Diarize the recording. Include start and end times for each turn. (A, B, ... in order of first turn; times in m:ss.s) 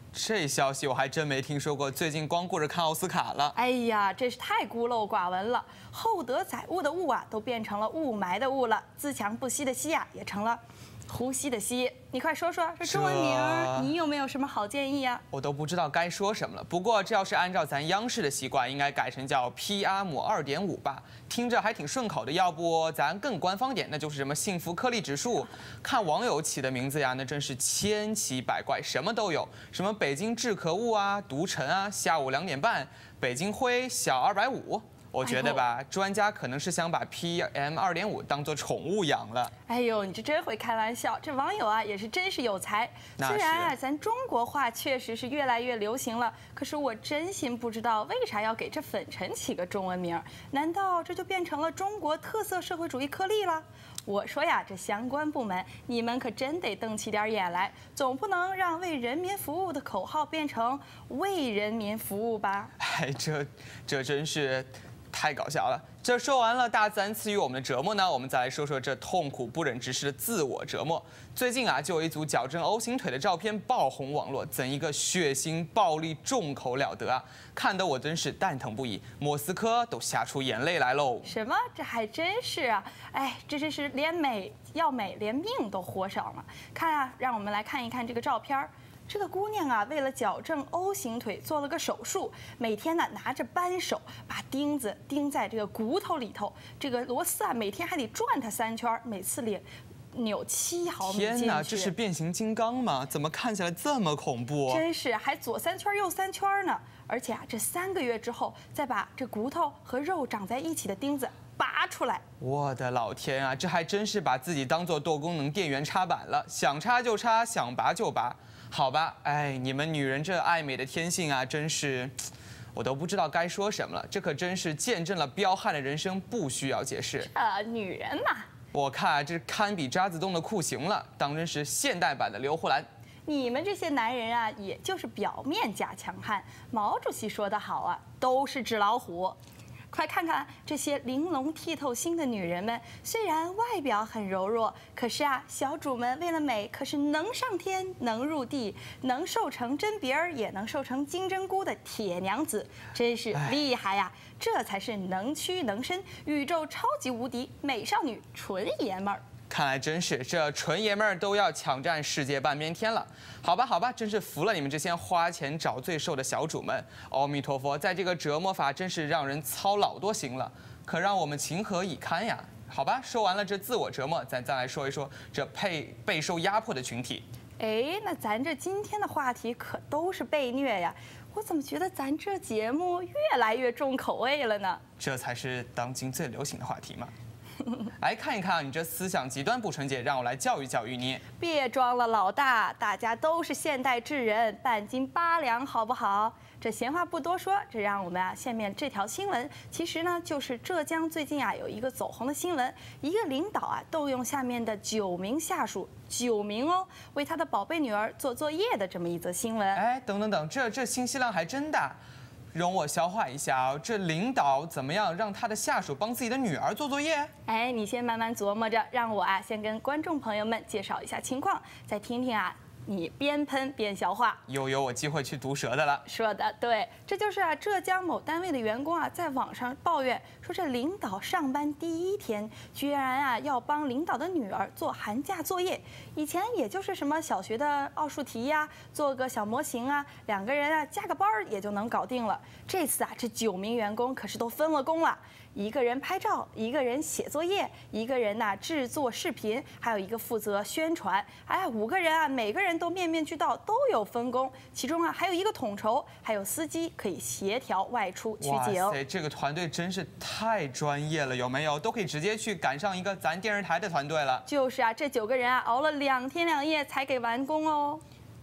0:00.1-0:03.6 A
0:03.6-0:15.2 B
0:12.8-0:13.9 A
0:15.3-0:39.5 A
0:35.2-0:35.6 B
0:39.7-1:02.7 B
0:43.2-0:43.7 A
1:02.8-1:21.3 A
1:21.2-1:41.9 B
1:41.0-1:44.8 A
1:44.7-1:52.2 B
1:52.4-2:02.2 A
2:02.8-2:07.3 A
2:07.2-2:08.5 B
2:08.7-2:12.9 A
2:13.3-2:19.4 B
2:19.9-2:39.2 B
2:39.5-2:57.2 A
2:57.6-3:04.8 B
3:05.0-3:07.1 A
3:08.0-3:11.2 A
3:11.4-3:29.8 B
3:29.7-3:32.0 A
3:32.5-3:37.3 A
3:37.5-3:44.4 B
3:44.5-3:46.0 A
3:46.1-4:19.0 B
4:18.4-4:24.5 A
4:24.5-4:28.0 B